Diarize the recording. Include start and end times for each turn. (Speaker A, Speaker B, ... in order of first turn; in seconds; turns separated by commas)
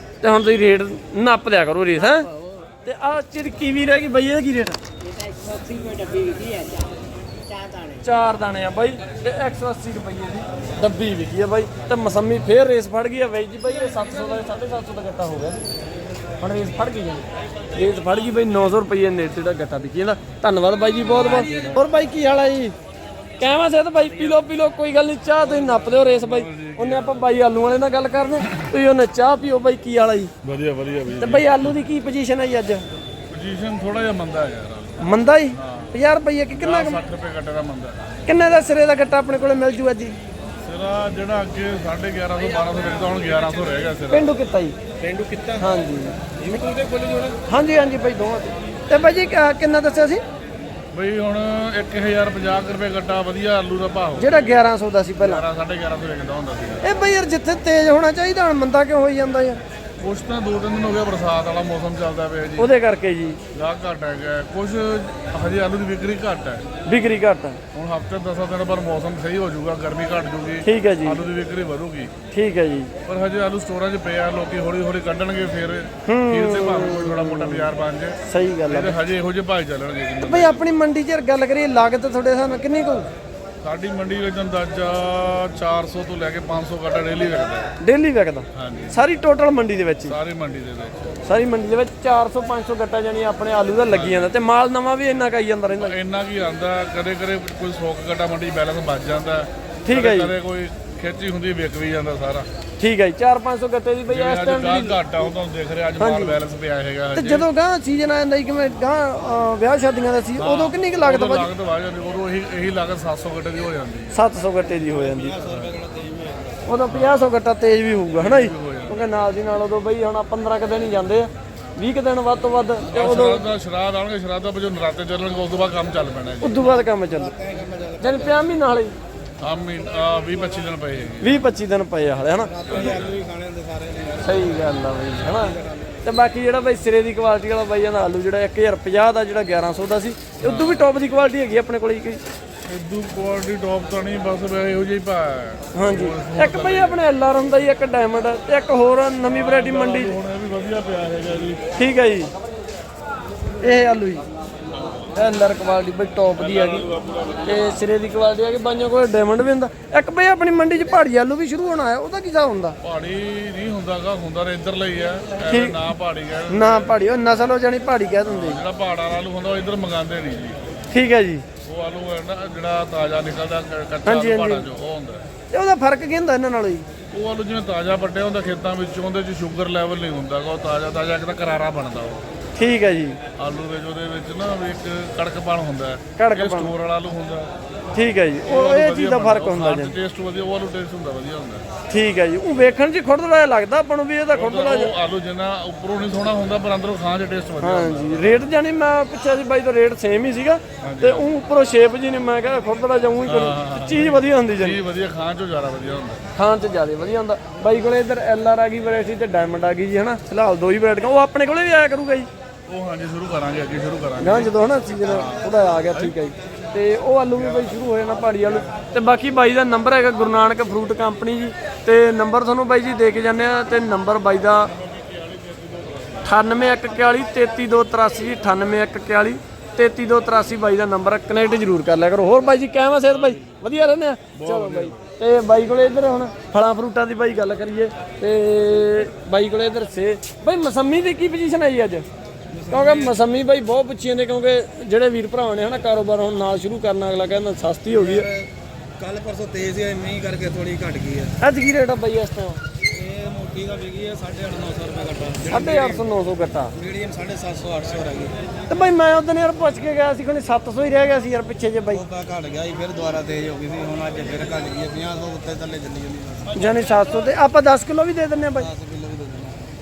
Speaker A: 0.2-2.3, Speaker B: 1.9-2.7, Speaker A: 2.9-4.8, Speaker B: 5.0-6.9, Speaker B: 7.5-8.1, Speaker A: 8.0-15.6, Speaker A: 16.4-17.2, Speaker A: 17.8-22.8, Speaker C: 21.2-21.8, Speaker A: 23.4-30.3, Speaker C: 25.5-27.3, Speaker C: 30.4-31.7, Speaker A: 31.2-32.8, Speaker C: 33.3-35.9, Speaker A: 35.0-37.0, Speaker C: 36.5-38.0, Speaker A: 38.3-40.2, Speaker C: 40.6-44.3, Speaker A: 44.1-44.8, Speaker D: 45.0-45.6, Speaker A: 45.6-46.2, Speaker D: 46.4-47.4, Speaker A: 47.5-50.2, Speaker C: 50.9-54.6, Speaker A: 54.2-55.4, Speaker C: 55.2-56.9, Speaker A: 56.8-59.6, Speaker C: 60.0-62.7, Speaker A: 62.6-63.4, Speaker C: 63.5-66.6, Speaker A: 66.9-67.6, Speaker C: 67.7-72.1, Speaker A: 70.7-71.2, Speaker A: 72.3-72.9, Speaker C: 73.1-80.7, Speaker A: 76.1-77.7, Speaker A: 78.3-79.0, Speaker A: 80.2-83.1, Speaker C: 83.6-87.7, Speaker A: 87.8-90.2, Speaker C: 88.6-89.0, Speaker C: 90.0-91.1, Speaker A: 91.3-95.9, Speaker C: 93.9-94.3, Speaker C: 95.8-102.5, Speaker A: 99.9-100.3, Speaker A: 102.8-105.0, Speaker C: 104.1-107.5, Speaker A: 106.0-106.4, Speaker A: 107.2-111.5, Speaker C: 110.4-114.1, Speaker A: 114.1-115.4, Speaker D: 114.8-116.6, Speaker C: 115.5-115.7, Speaker A: 116.7-123.5, Speaker C: 116.9-117.2, Speaker C: 118.2-119.0, Speaker C: 122.9-126.6, Speaker A: 126.4-127.3, Speaker D: 126.6-128.6, Speaker A: 128.0-129.0, Speaker C: 129.4-131.5, Speaker A: 131.2-132.5, Speaker D: 132.5-136.0, Speaker C: 132.7-133.2, Speaker A: 134.2-142.2, Speaker C: 140.4-140.9, Speaker C: 142.7-147.0, Speaker A: 145.7-150.2, Speaker C: 149.3-151.7, Speaker A: 151.8-152.3, Speaker A: 153.6-154.2, Speaker A: 155.2-156.9, Speaker C: 156.4-157.6, Speaker A: 157.5-162.8, Speaker C: 162.8-166.9, Speaker A: 165.5-165.8, Speaker A: 166.5-168.6, Speaker C: 168.3-170.6, Speaker A: 170.9-171.5, Speaker C: 171.7-175.2, Speaker A: 174.1-174.7, Speaker A: 175.5-176.8, Speaker C: 177.1-182.2, Speaker A: 182.6-183.2, Speaker C: 183.4-187.5, Speaker A: 186.2-186.7, Speaker A: 187.9-189.9, Speaker C: 188.5-191.7, Speaker A: 191.9-194.9, Speaker C: 194.3-198.5, Speaker A: 197.6-204.8, Speaker C: 200.8-201.3, Speaker C: 203.3-206.2, Speaker A: 206.4-212.3, Speaker C: 212.7-216.2, Speaker A: 214.2-224.7, Speaker C: 225.4-225.9, Speaker A: 226.2-242.1, Speaker C: 234.3-235.0, Speaker D: 242.5-243.2, Speaker A: 242.7-248.3, Speaker D: 247.9-248.5, Speaker D: 249.0-251.4, Speaker A: 251.4-252.6, Speaker D: 252.9-256.1, Speaker A: 255.5-256.7, Speaker D: 256.8-258.4, Speaker A: 258.7-262.0, Speaker D: 261.9-266.9, Speaker A: 266.6-268.7, Speaker D: 268.6-269.7